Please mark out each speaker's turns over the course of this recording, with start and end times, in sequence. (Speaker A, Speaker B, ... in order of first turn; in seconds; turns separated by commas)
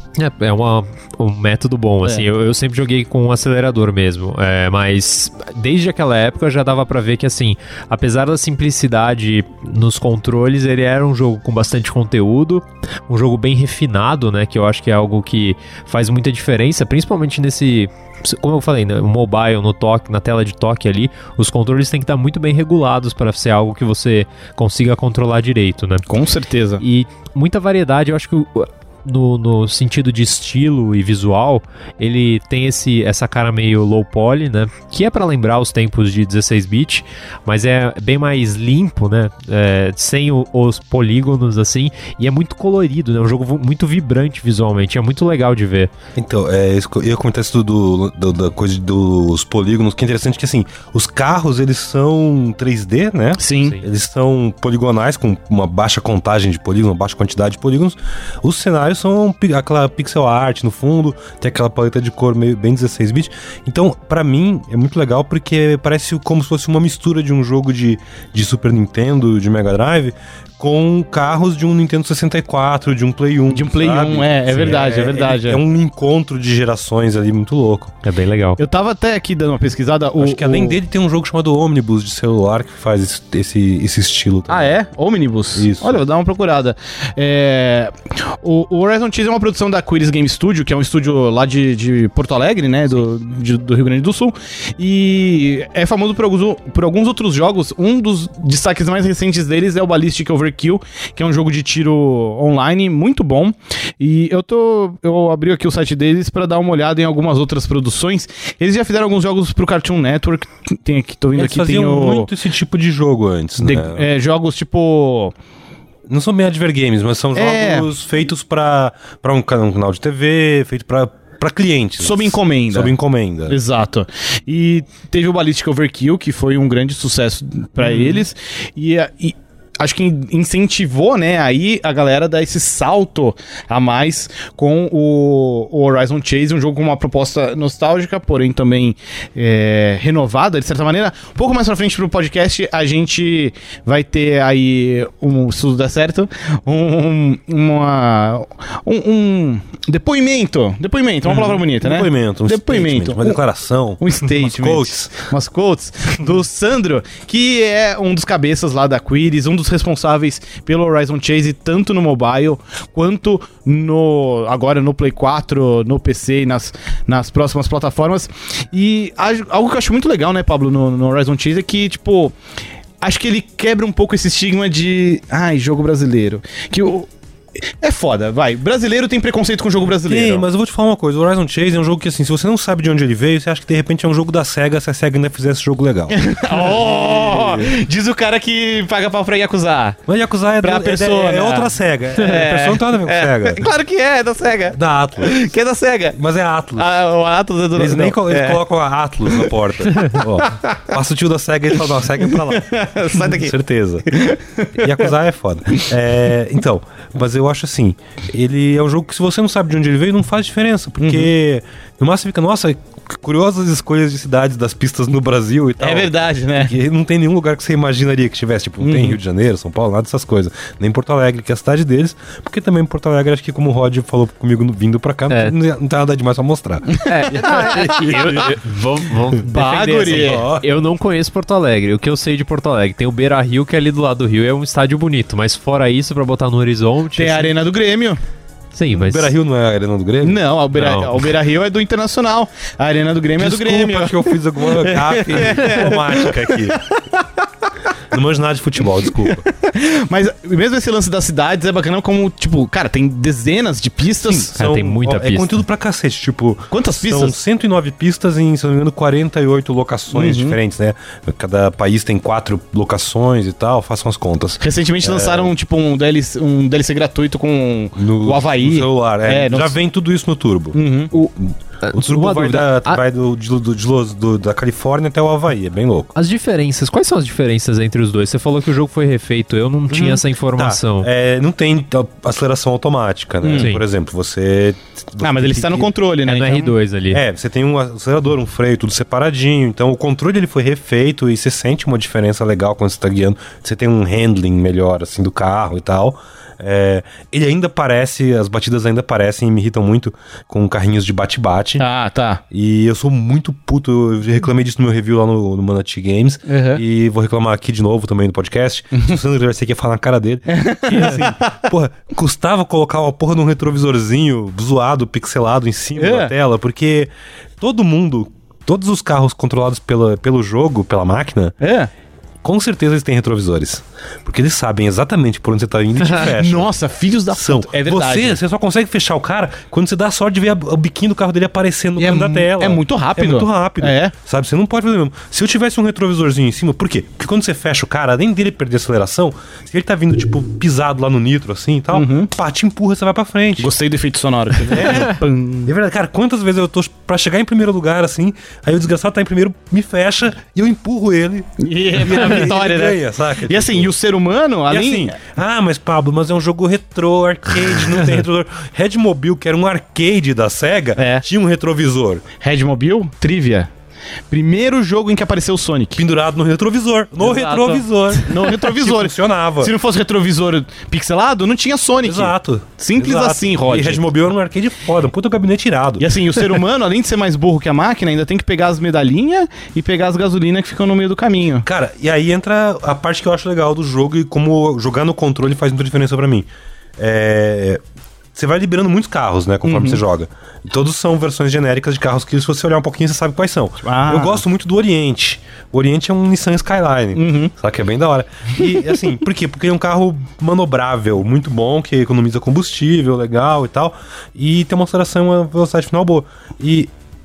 Speaker A: 0.1-26.1, Speaker B: 26.1-26.8, Speaker A: 26.8-45.9, Speaker C: 46.1-77.9, Speaker B: 53.4-53.8, Speaker B: 73.5-75.6, Speaker A: 74.5-74.8, Speaker A: 78.0-78.6, Speaker B: 78.6-80.8, Speaker C: 80.2-84.7, Speaker B: 84.5-112.3, Speaker C: 85.5-86.0, Speaker C: 111.3-114.1, Speaker B: 113.6-115.3, Speaker C: 116.1-123.6, Speaker B: 117.3-117.9, Speaker B: 122.0-122.9, Speaker B: 123.5-153.4, Speaker C: 127.8-128.2, Speaker C: 151.3-155.1, Speaker B: 154.0-172.3, Speaker B: 173.0-177.1, Speaker B: 177.8-180.4, Speaker C: 180.0-187.7, Speaker B: 186.1-190.0, Speaker C: 190.1-193.7, Speaker B: 190.6-196.2, Speaker C: 194.7-195.4, Speaker C: 196.1-196.9, Speaker B: 196.8-198.6, Speaker C: 197.7-204.1, Speaker B: 200.2-200.9, Speaker B: 202.2-203.5, Speaker B: 204.1-205.0, Speaker C: 204.8-228.5, Speaker B: 211.0-211.3, Speaker B: 215.8-216.7, Speaker B: 218.8-219.2, Speaker A: 225.3-225.5, Speaker B: 226.9-228.5, Speaker A: 227.0-237.5, Speaker B: 229.5-230.4, Speaker C: 230.0-230.7, Speaker B: 237.2-238.2, Speaker A: 238.7-239.3, Speaker C: 238.9-240.4, Speaker B: 240.2-247.4, Speaker A: 240.8-241.3, Speaker C: 243.4-246.8, Speaker C: 248.1-249.4, Speaker B: 249.2-254.6, Speaker C: 254.2-265.5, Speaker A: 254.6-255.6, Speaker B: 256.7-257.4, Speaker B: 260.1-260.6, Speaker B: 264.6-269.8, Speaker C: 267.9-270.8, Speaker B: 270.7-271.1, Speaker A: 271.1-273.0, Speaker C: 271.4-276.1, Speaker A: 276.1-281.1, Speaker C: 279.9-285.9, Speaker B: 283.4-283.7, Speaker A: 283.5-283.8, Speaker B: 285.2-286.7, Speaker A: 286.2-287.2, Speaker C: 287.1-301.8, Speaker B: 301.8-302.4, Speaker C: 302.5-321.6, Speaker B: 306.5-306.8, Speaker B: 310.5-311.6, Speaker B: 315.9-316.3, Speaker B: 321.6-321.9, Speaker C: 322.4-326.7, Speaker B: 326.0-328.4, Speaker C: 327.3-343.7, Speaker B: 332.0-334.1, Speaker B: 341.9-342.3, Speaker B: 343.6-345.7, Speaker C: 344.6-353.9, Speaker B: 351.6-355.2, Speaker C: 354.7-362.2, Speaker B: 361.0-361.2, Speaker B: 362.4-363.7, Speaker B: 364.3-366.0, Speaker C: 365.9-369.7, Speaker B: 367.2-374.1, Speaker C: 372.0-376.4, Speaker B: 376.0-381.6, Speaker C: 381.6-387.8, Speaker C: 388.3-406.9, Speaker B: 389.6-390.0, Speaker B: 393.8-394.4, Speaker B: 397.1-397.5